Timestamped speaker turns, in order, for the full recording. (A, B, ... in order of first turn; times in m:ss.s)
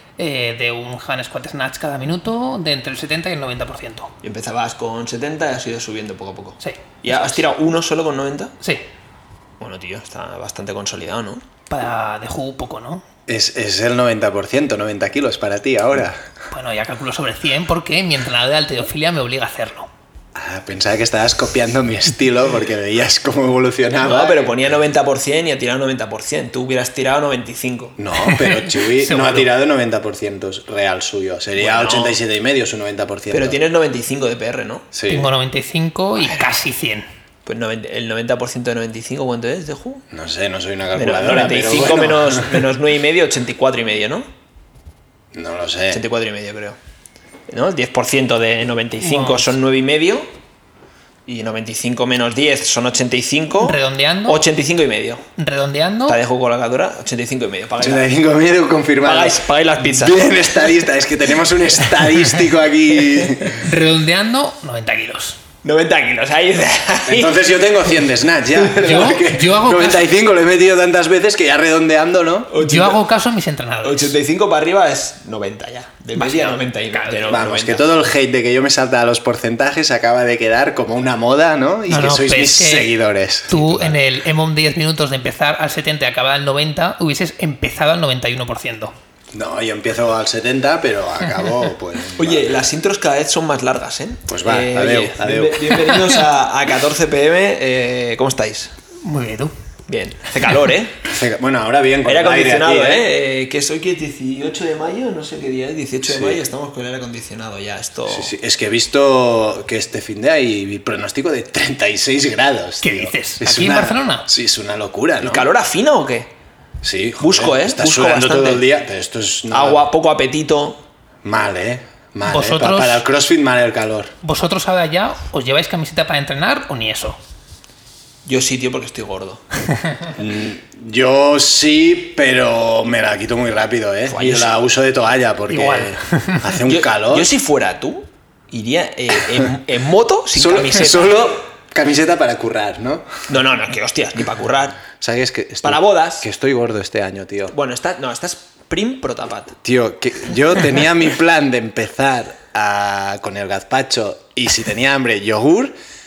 0:00.2-0:04.1 A
0:04.2-0:08.6 B
0:06.6-0:07.5 A
0:09.6-0:11.4 B
0:11.7-0:13.0 A
0:13.3-0:16.2 C
0:16.5-0:19.9 A
0:20.4-0:24.6 C
0:24.0-0:28.0 B
0:28.0-0:33.6 C
0:28.2-0:29.5 A
0:31.6-0:32.2 B
0:33.3-0:34.9 B
0:34.9-0:35.3 C
0:35.1-0:37.1 A
0:37.5-0:40.0 B
0:40.1-0:42.6 C
0:40.9-0:44.3 B
0:45.3-0:46.0 C
0:45.9-0:46.8 B
0:47.5-0:50.3 B
0:49.0-0:49.5 A
0:51.3-0:55.2 B
0:53.6-0:54.4 A
0:55.4-0:56.2 A
0:56.1-0:58.0 B
0:57.8-1:03.7 C
0:59.0-1:00.8 B
1:03.6-1:05.4 A
1:05.6-1:09.2 B
1:07.1-1:12.5 C
1:08.8-1:10.1 A
1:12.5-1:13.0 B
1:12.6-1:14.1 A
1:13.8-1:17.9 B
1:16.2-1:17.4 A
1:17.3-1:24.0 C
1:21.9-1:23.0 A
1:23.5-1:28.9 A
1:29.3-1:32.5 C
1:32.2-1:38.7 B
1:34.3-1:36.0 C
1:39.0-1:39.5 A
1:39.9-1:41.0 B
1:41.0-1:43.0 C
1:42.0-1:48.3 B
1:46.1-1:46.5 C
1:48.1-1:55.5 C
1:52.8-1:54.3 A
1:55.2-1:56.3 B
1:56.8-1:59.9 C
1:57.2-1:58.6 B
1:59.5-2:00.8 B
2:01.2-2:04.1 C
2:02.3-2:03.0 A
2:04.2-2:07.2 A
2:08.2-2:09.4 B
2:10.2-2:17.3 C
2:14.1-2:14.5 B
2:15.5-2:16.5 A
2:16.6-2:21.2 B
2:19.2-2:19.4 C
2:20.3-2:23.1 C
2:23.3-2:24.8 B
2:25.0-2:27.5 C
2:25.6-2:26.3 B
2:27.5-2:29.6 B
2:29.6-2:35.7 C